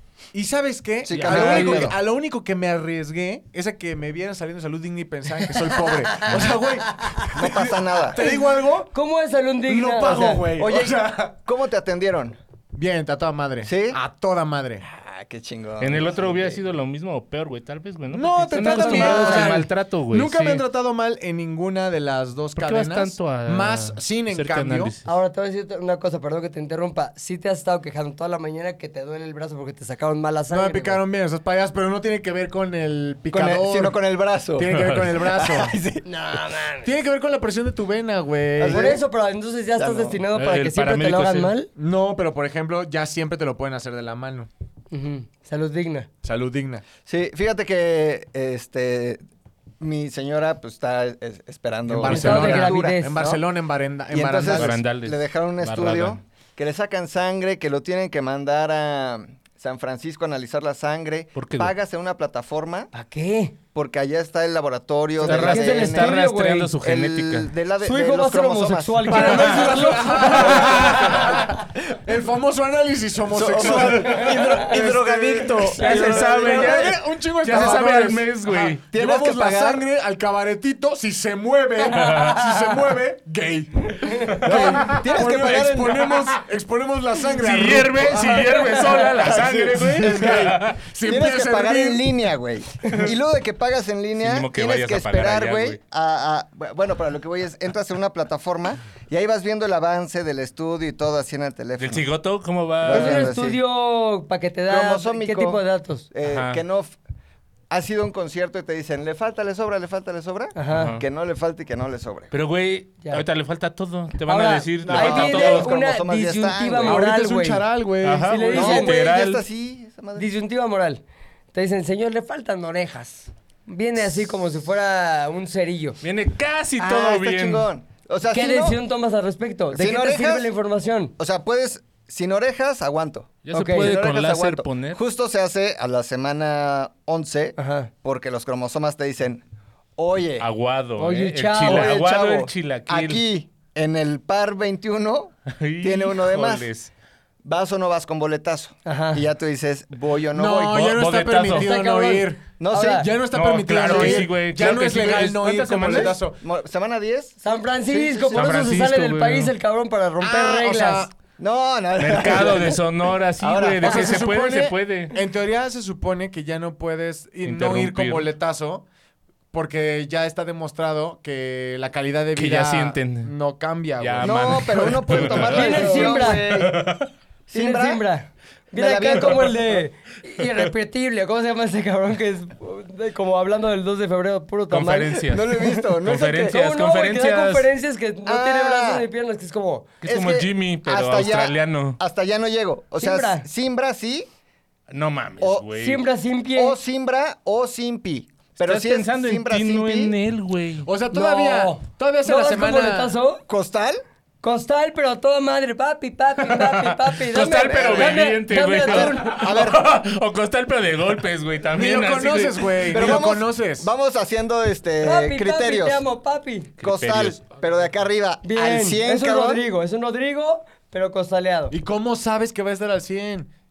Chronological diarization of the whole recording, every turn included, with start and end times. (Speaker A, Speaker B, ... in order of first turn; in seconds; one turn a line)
Speaker A: 0.3-8.9
Speaker B: 1.1-1.9
Speaker C: 1.1-1.9
Speaker D: 6.1-6.4
Speaker B: 7.3-8.2
Speaker D: 8.9-10.5
Speaker A: 9.7-11.3
Speaker B: 10.6-12.4
Speaker A: 12.8-14.8
Speaker B: 13.6-14.0
Speaker B: 14.8-16.6
Speaker C: 15.8-20.6
Speaker A: 18.1-24.9
Speaker D: 18.6-19.6
Speaker C: 22.6-25.1
Speaker D: 25.1-31.0
Speaker A: 30.5-34.0
Speaker B: 33.3-36.0
Speaker A: 34.6-35.8
Speaker C: 34.7-35.1
Speaker D: 36.0-36.9
Speaker A: 36.8-39.0
Speaker B: 38.6-39.0
Speaker D: 38.6-41.7
Speaker B: 39.8-40.2
Speaker C: 40.4-41.5
Speaker A: 41.8-44.5
Speaker D: 44.9-46.1
Speaker A: 46.2-46.8
Speaker B: 47.0-49.2
Speaker B: 49.8-53.0
Speaker A: 51.9-54.8
Speaker D: 52.0-53.4
Speaker B: 54.1-62.9
Speaker C: 54.4-56.2
Speaker C: 61.4-61.7
Speaker D: 62.9-63.6
Speaker B: 63.7-66.2
Speaker D: 65.2-66.7
Speaker C: 65.2-67.5
Speaker B: 66.8-69.7
Speaker D: 67.8-71.3
Speaker A: 69.1-92.0
Speaker C: 69.1-71.2
Speaker B: 70.4-71.4
Speaker B: 73.3-78.0
Speaker D: 74.3-74.6
Speaker C: 75.6-78.8
Speaker D: 75.8-76.3
Speaker B: 78.5-79.8
Speaker D: 81.9-82.7
Speaker C: 82.0-82.3
Speaker D: 84.0-85.7
Speaker B: 84.4-86.3
Speaker C: 87.3-90.8
Speaker D: 88.6-89.1
Speaker B: 89.2-102.1
Speaker C: 94.2-95.8
Speaker C: 101.8-103.3
Speaker B: 102.8-103.6
Speaker D: 102.9-106.1
Speaker B: 104.7-107.0
Speaker C: 106.2-106.6
Speaker B: 107.7-112.3
Speaker D: 110.5-110.9
Speaker C: 110.7-111.0
Speaker C: 112.3-115.7
Speaker D: 114.3-117.7
Speaker B: 114.8-117.0
Speaker A: 116.8-118.5
Speaker C: 118.0-119.4
Speaker D: 118.3-119.0
Speaker B: 118.5-120.3
Speaker D: 120.2-121.0
Speaker D: 121.5-126.0
Speaker C: 126.0-127.7
Speaker B: 126.8-128.8
Speaker D: 128.3-131.1
Speaker B: 129.7-130.5
Speaker B: 131.2-139.4
Speaker C: 133.4-135.0
Speaker D: 133.5-133.9
Speaker D: 137.6-137.9
Speaker B: 140.0-140.5
Speaker C: 140.4-143.2
Speaker D: 141.0-141.9
Speaker B: 141.6-146.7
Speaker C: 145.5-146.9
Speaker B: 147.4-151.0
Speaker D: 148.8-149.2
Speaker A: 150.3-156.4
Speaker C: 150.7-151.7
Speaker D: 151.5-153.1
Speaker B: 152.6-153.1
Speaker C: 153.3-156.2
Speaker B: 153.9-154.3
Speaker B: 155.9-158.6
Speaker D: 157.4-161.1
Speaker C: 158.3-159.5
Speaker A: 160.2-161.1
Speaker B: 161.4-162.8
Speaker C: 162.0-165.2
Speaker B: 163.4-164.2
Speaker A: 163.8-168.9
Speaker C: 167.4-168.3
Speaker A: 169.5-175.5
Speaker C: 172.3-173.3
Speaker C: 174.0-177.1
Speaker B: 174.2-176.9
Speaker D: 175.5-176.7
Speaker B: 177.5-178.0
Speaker D: 177.5-185.2
Speaker B: 178.8-179.8
Speaker C: 179.2-179.4
Speaker C: 184.7-187.7
Speaker B: 185.3-186.6
Speaker D: 186.5-189.9
Speaker B: 188.3-189.1
Speaker C: 190.0-192.0
Speaker B: 190.1-194.3
Speaker D: 193.0-193.5
Speaker C: 194.9-196.0
Speaker B: 195.4-195.7
Speaker D: 195.8-196.8
Speaker B: 196.6-200.1
Speaker C: 198.6-200.9
Speaker A: 200.8-203.2
Speaker D: 201.1-203.4
Speaker B: 203.5-204.0
Speaker D: 204.4-209.4
Speaker C: 206.4-213.1
Speaker B: 207.4-209.9
Speaker A: 211.7-213.9
Speaker B: 212.9-216.0
Speaker D: 215.0-216.7
Speaker C: 216.8-217.5
Speaker B: 216.8-219.7
Speaker D: 218.4-221.8
Speaker A: 221.7-223.5